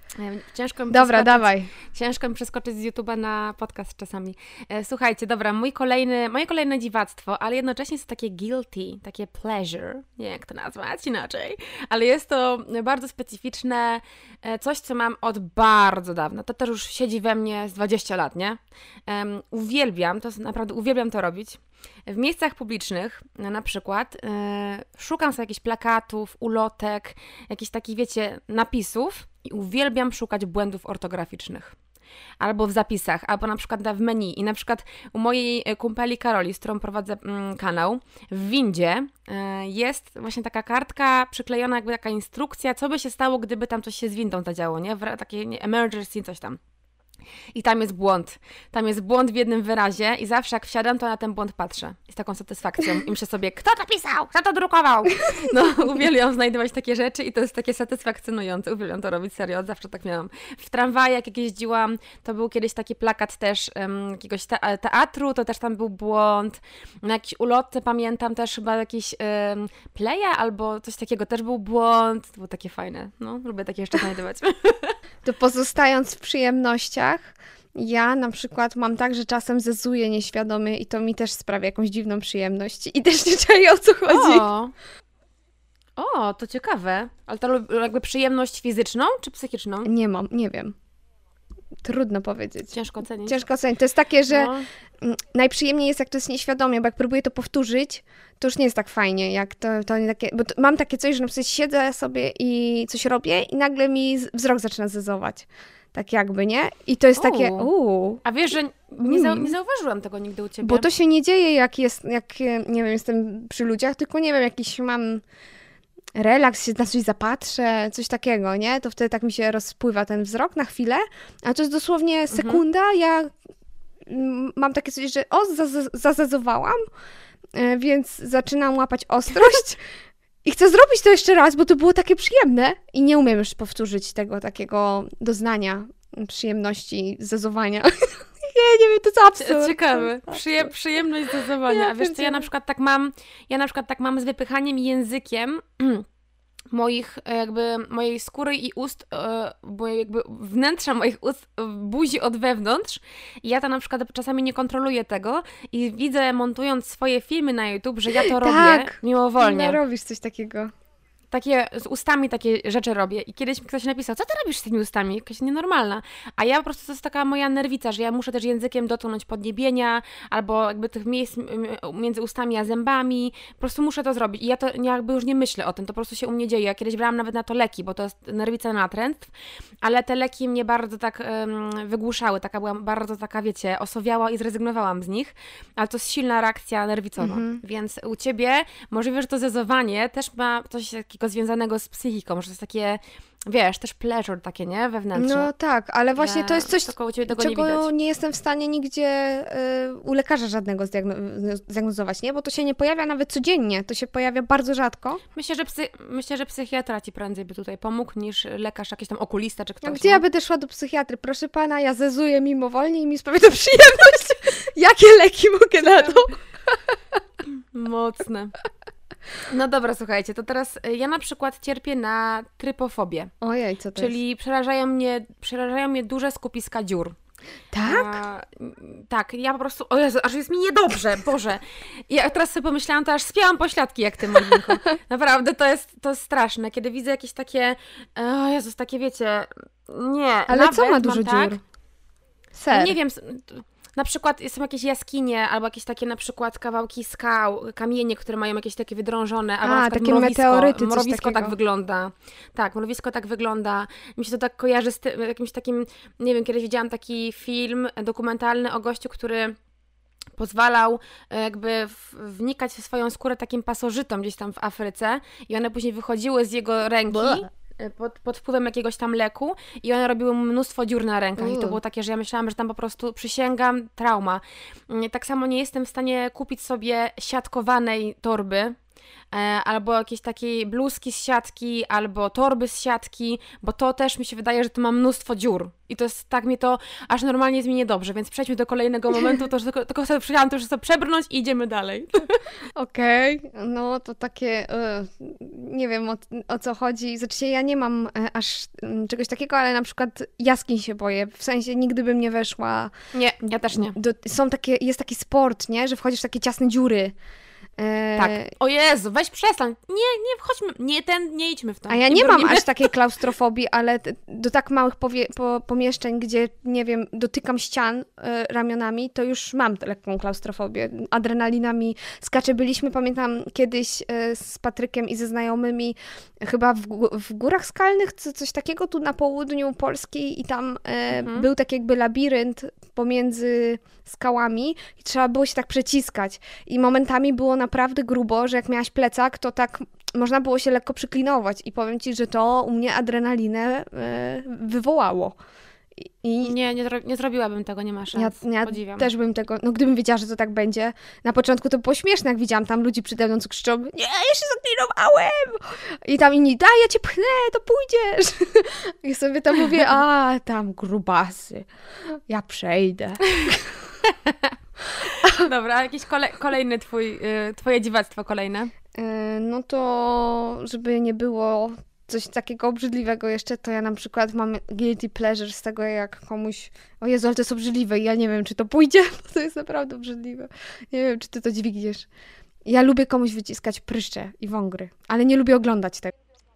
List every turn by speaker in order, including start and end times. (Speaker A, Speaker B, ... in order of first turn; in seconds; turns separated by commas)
Speaker A: 0.1-31.7, Speaker B: 0.9-1.7, Speaker A: 32.4-46.6, Speaker A: 47.5-75.0, Speaker B: 75.2-84.5, Speaker A: 84.1-84.7, Speaker A: 86.0-89.9, Speaker B: 89.8-90.8, Speaker B: 91.8-92.7, Speaker A: 92.7-93.4, Speaker B: 93.2-108.2, Speaker A: 94.3-94.7, Speaker A: 107.2-107.7, Speaker A: 108.2-110.9, Speaker B: 109.0-109.5, Speaker B: 110.6-115.2, Speaker B: 116.2-123.3, Speaker A: 122.3-122.6, Speaker B: 124.1-126.8, Speaker B: 127.5-129.8, Speaker B: 130.4-140.7, Speaker A: 139.4-146.1, Speaker B: 141.7-142.4, Speaker A: 146.7-159.8, Speaker B: 158.1-160.7, Speaker A: 161.3-179.3, Speaker A: 179.8-195.5, Speaker B: 187.2-187.6, Speaker B: 195.1-205.2, Speaker A: 196.2-197.9, Speaker A: 205.3-210.2, Speaker B: 209.8-216.9, Speaker A: 217.5-218.5, Speaker A: 219.5-223.3, Speaker B: 223.4-224.1, Speaker A: 224.0-227.2, Speaker B: 227.7-228.2, Speaker A: 227.8-241.6, Speaker B: 240.5-241.6, Speaker B: 242.6-242.9, Speaker A: 242.7-259.6, Speaker B: 249.6-251.5, Speaker A: 260.4-278.8, Speaker B: 267.1-267.5, Speaker B: 271.4-271.8, Speaker A: 279.3-292.4, Speaker B: 292.8-302.9, Speaker A: 303.1-304.0, Speaker B: 303.9-307.2, Speaker B: 307.8-308.5, Speaker A: 308.2-312.9, Speaker B: 311.9-345.4, Speaker A: 331.1-331.5, Speaker B: 346.0-346.6, Speaker A: 346.4-349.1, Speaker B: 348.1-363.7, Speaker A: 364.1-364.5, Speaker B: 365.1-365.5, Speaker A: 365.3-368.7, Speaker B: 368.9-382.1, Speaker B: 382.7-386.1